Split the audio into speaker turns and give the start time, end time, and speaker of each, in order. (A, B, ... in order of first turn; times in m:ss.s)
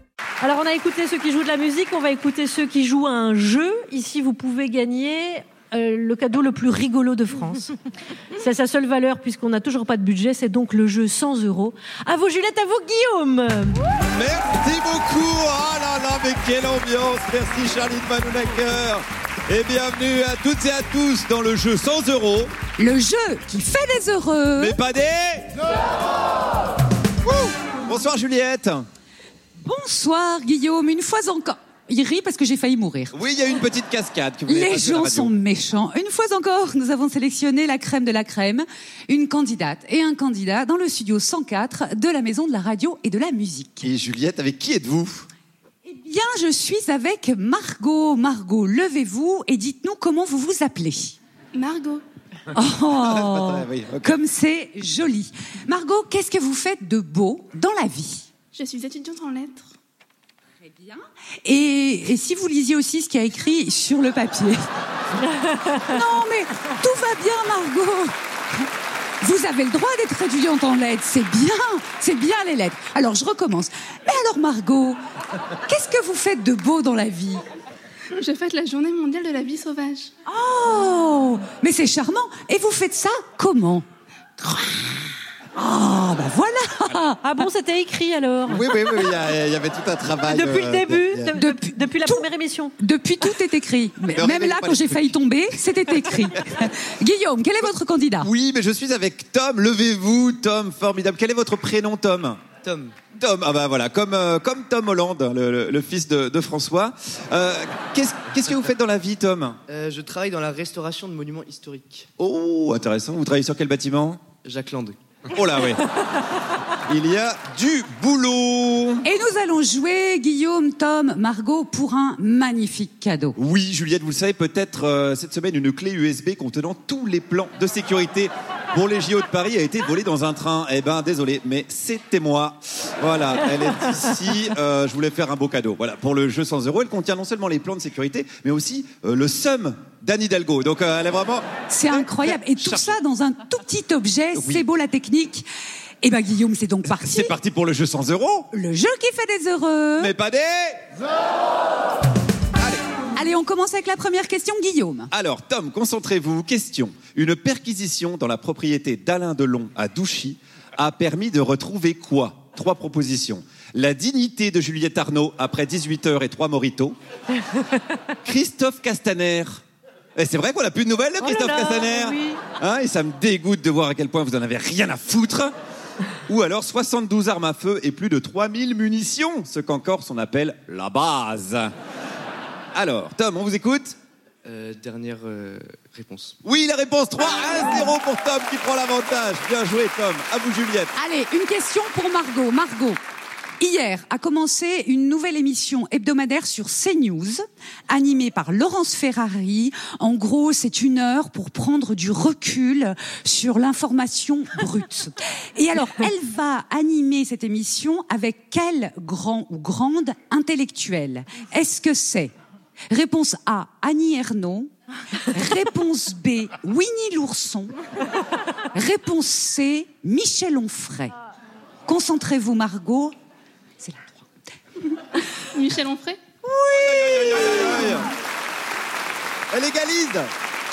0:00.4-0:07.7 A
0:08.4-0:13.8 A
0:14.1-0:22.5 B
0:22.8-0:24.8 C
0:24.6-0:25.5 B
0:27.2-0:28.8 B
0:29.6-0:33.1 C
0:33.1-0:35.3 B
0:34.5-0:43.9 C
0:43.8-0:45.3 B
0:45.8-0:51.2 C
0:51.5-0:52.0 D
0:52.5-0:58.3 C
0:52.9-0:54.2 B
0:58.5-0:59.7 D
1:00.6-1:04.6 C
1:05.4-1:08.6 C
1:09.2-1:15.0 C
1:15.6-1:17.4 C
1:18.1-1:20.1 D
1:20.3-1:23.8 C
1:24.4-1:27.2 C
1:27.2-1:28.8 A
1:28.4-1:31.3 B
1:30.2-1:32.7 A
1:31.3-1:32.3 C
1:32.8-1:38.3 C
1:34.1-1:35.1 B
1:38.2-1:42.4 B
1:42.6-1:42.9 E
1:43.2-1:49.6 B
1:49.7-1:52.1 E
1:52.2-1:54.2 B
1:54.4-1:55.0 E
1:55.3-1:55.8 B
1:56.9-1:59.0 B
1:59.0-2:03.4 C
2:03.4-2:22.9 B
2:21.7-2:25.4 C
2:24.3-2:24.6 B
2:26.0-2:27.3 C
2:26.8-2:28.5 B
2:28.5-2:30.1 C
2:30.0-2:30.8 B
2:32.6-2:32.8 B
2:33.1-2:35.1 C
2:35.1-2:47.0 B
2:48.2-2:49.6 B
2:50.2-2:55.5 B
2:51.2-2:52.4 A
2:56.3-3:01.7 B
3:02.7-3:04.0 B
3:04.4-3:06.4 E
3:06.4-3:10.9 B
3:11.0-3:13.0 C
3:13.6-3:32.3 C
3:32.9-3:34.7 C
3:35.3-3:37.7 C
3:38.7-3:41.1 C
3:41.8-3:43.1 C
3:43.8-3:44.2 C
3:45.5-3:46.2 D
3:46.4-3:48.0 C
3:46.7-3:48.1 B
3:49.5-3:50.3 B